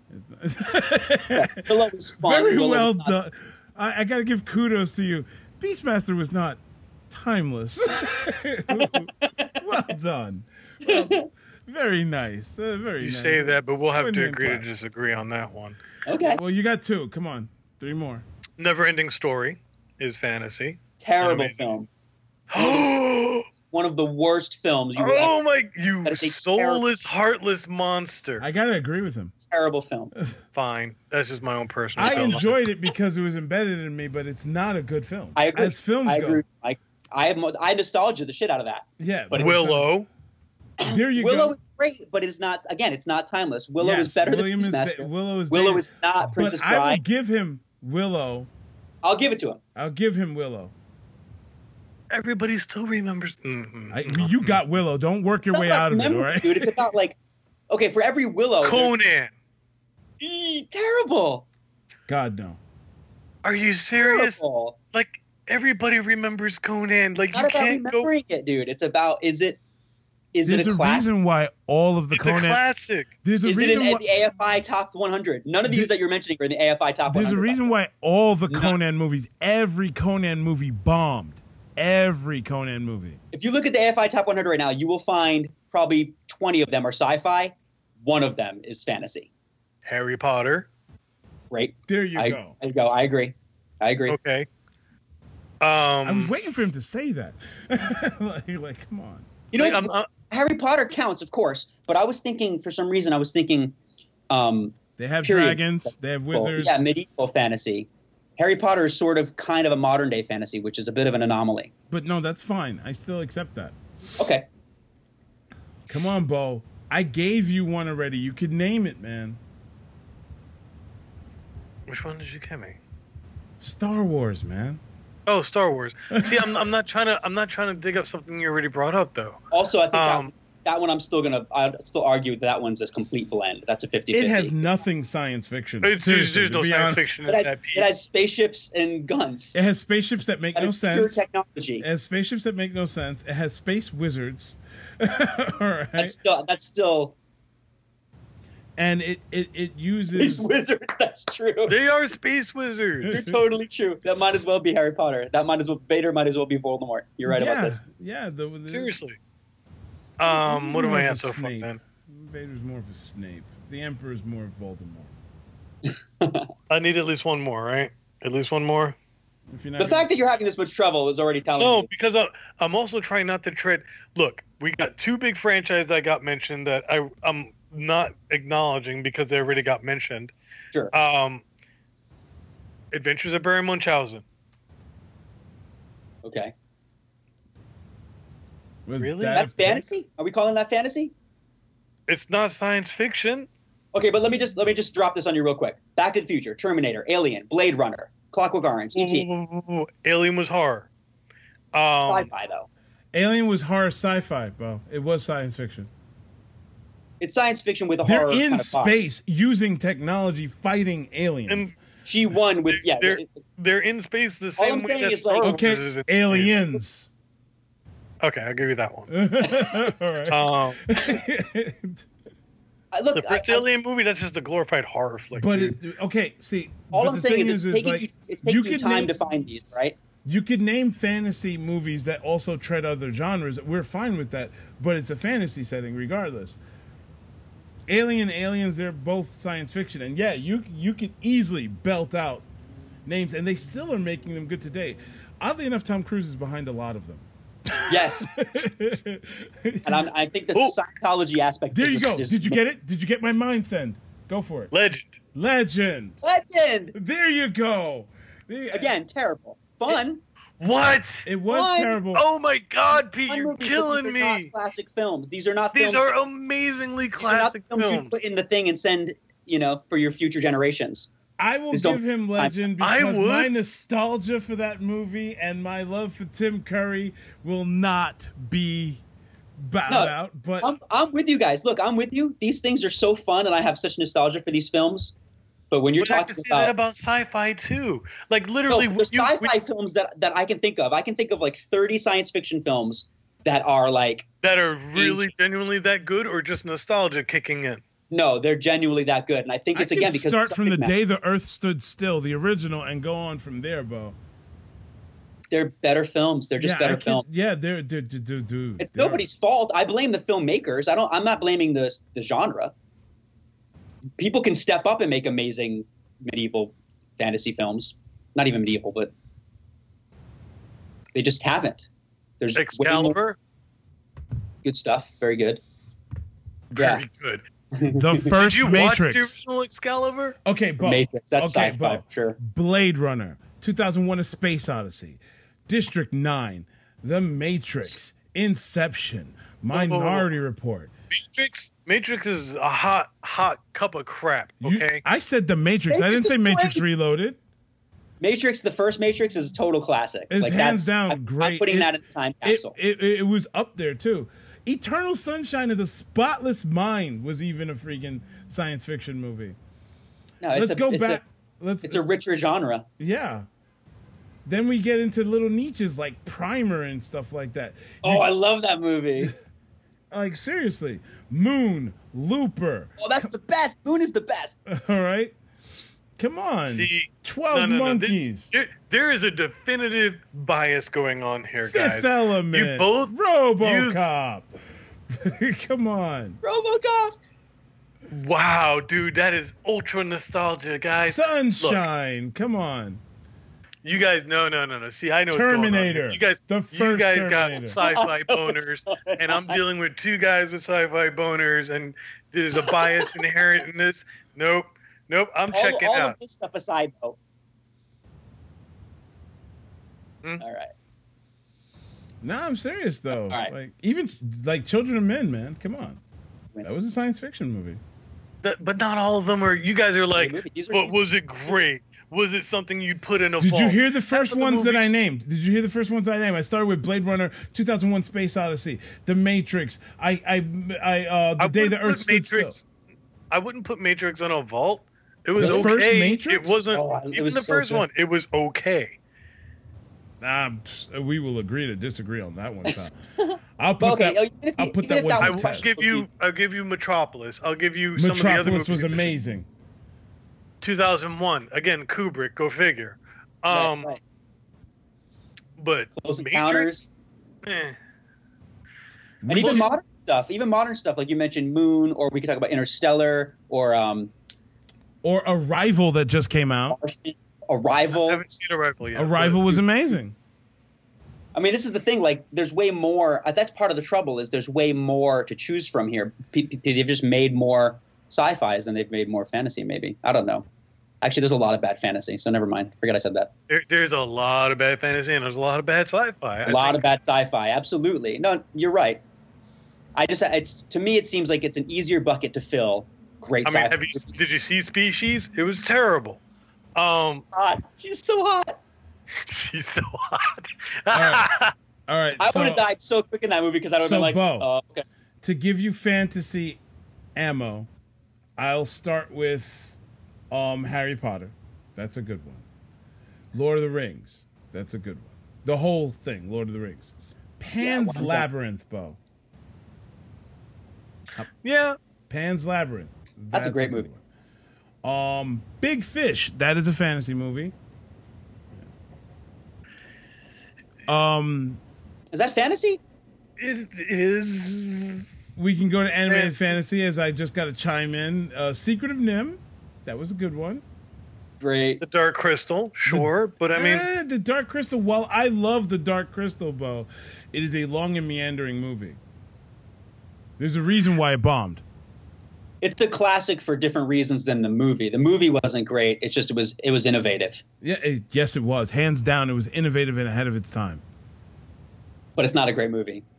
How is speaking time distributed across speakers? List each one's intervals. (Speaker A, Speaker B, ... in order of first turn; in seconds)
Speaker A: 0.1-14.7, 16.2-18.2, 28.4-29.3, 32.0-36.4, 39.0-39.9, 40.8-41.6, 43.8-48.5, 49.8-50.7, 53.9-56.8, 62.1-62.6, 70.5-72.6, 73.2-74.0, 75.7-75.9, 77.1-83.2, 91.9-92.6, 96.0-99.3, 105.0-106.8, 111.9-113.8, 115.9-119.4, 123.6-124.8, 134.1-137.1, 139.5-141.2, 141.8-146.2, 148.8-150.5, 153.1-153.3, 157.3-158.9, 160.3-165.1, 169.5-170.1, 188.9-189.8, 203.1-205.9, 208.0-211.7, 215.4-217.1, 219.1-222.1, 225.4-229.1, 230.2-236.6, 237.9-242.4, 243.1-250.1, 251.7-254.7, 255.3-256.2, 256.9-258.9, 261.2-262.2, 271.4-279.0, 279.6-280.7, 299.8-304.2, 306.6-309.3, 327.9-329.4, 330.4-340.9, 344.6-347.4, 350.3-359.6, 360.5-362.0, 363.0-363.5, 364.5-368.3, 370.1-372.9, 374.7-375.4, 376.2-378.5, 381.6-384.5, 385.1-386.4, 390.9-393.0, 395.3-397.8, 412.2-416.0, 416.6-417.8, 423.4-432.6, 435.4-436.6, 440.2-442.9, 443.6-445.7, 448.0-449.5, 459.2-459.6, 465.0-466.8, 469.0-470.1, 500.9-501.3, 501.9-502.7, 503.8-504.5, 505.2-506.6, 507.2-507.7, 508.4-509.8, 510.3-512.5, 513.3-519.0, 522.1-524.0, 524.8-527.5, 530.9-531.6, 535.4-540.6, 542.9-549.0, 550.4-551.6, 557.6-560.8
Speaker B: 1.3-3.1, 8.7-9.8, 10.8-11.3, 16.1-16.4, 21.0-21.9, 22.6-22.9, 23.7-25.3, 26.1-26.8, 29.5-30.1, 32.0-32.4, 35.4-39.6, 40.8-47.0, 49.0-49.6, 55.5-57.2, 57.7-58.9, 60.2-61.5, 64.0-64.8, 67.3-69.6, 70.3-71.1, 73.4-77.7, 78.5-78.8, 83.3-89.3, 91.5-94.2, 99.5-103.8, 104.3-111.7, 114.2-114.5, 129.5-134.7, 137.3-139.6, 140.6-141.8, 146.0-147.2, 150.2-151.8, 153.1-157.8, 165.9-166.5, 169.8-171.9, 186.2-186.5, 189.3-191.1, 193.9-199.3, 202.1-202.7, 207.2-208.9, 212.1-213.3, 214.6-215.6, 222.9-223.7, 226.9-230.0, 247.9-248.3, 249.8-252.6, 256.2-256.9, 258.7-260.2, 261.5-262.0, 262.9-266.1, 267.2-271.1, 271.7-272.6, 279.9-285.1, 285.7-286.7, 288.7-294.3, 294.9-295.3, 298.1-300.9, 305.5-307.3, 308.8-312.7, 314.2-319.1, 321.1-321.9, 322.4-323.2, 324.6-325.6, 326.8-327.0, 327.7-328.3, 330.8-332.4, 345.9-346.8, 348.2-352.8, 360.4-361.2, 361.8-362.9, 368.0-369.3, 373.0-374.6, 386.4-387.2, 397.7-399.6, 402.6-403.3, 405.5-407.2, 410.4-410.7, 413.3-413.5, 420.1-421.0, 435.4-435.8, 436.7-437.9, 442.7-446.1, 453.5-454.0, 456.0-456.9, 459.3-464.1, 466.7-468.2, 471.4-480.5, 481.0-483.3, 486.5-489.0, 490.0-494.1, 496.9-498.6, 502.2-504.9, 517.6-518.3, 523.3-523.9, 532.1-532.8, 541.4-541.8, 552.6-557.4, 562.2-563.0
Speaker C: 13.0-15.8, 18.6-21.7, 22.5-23.5, 25.0-28.4, 30.5-32.7, 39.4-40.1, 52.1-54.6, 58.6-59.3, 63.4-64.4, 64.9-68.1, 72.1-73.1, 89.8-90.7, 94.1-94.5, 95.6-96.3, 99.5-100.1, 121.9-122.8, 125.3-129.4, 129.9-130.3, 135.8-137.9, 151.7-153.3, 158.7-159.2, 160.2-161.8, 166.7-169.0, 171.6-180.3, 180.9-181.4, 182.9-184.2, 189.0-189.5, 192.1-193.5, 198.9-200.9, 201.7-202.3, 211.5-211.7, 212.7-216.8, 218.2-219.1, 220.3-220.8, 223.2-225.8, 254.7-255.2, 260.6-261.3, 262.1-264.5, 265.7-268.1, 272.8-273.5, 286.0-289.5, 294.4-297.8, 322.6-323.4, 326.7-327.4, 328.3-330.4, 339.7-340.3, 341.1-345.0, 376.7-384.0, 388.1-391.8, 393.8-406.2, 418.4-424.9, 431.4-432.6, 433.3-439.0, 445.2-449.2, 450.6-453.9, 455.6-456.7, 457.4-457.8, 459.3-459.7, 467.9-469.6, 483.5-486.8, 493.4-496.2, 496.8-497.2, 499.3-501.5, 521.4-521.8, 533.4-535.3, 536.1-536.5, 541.8-543.9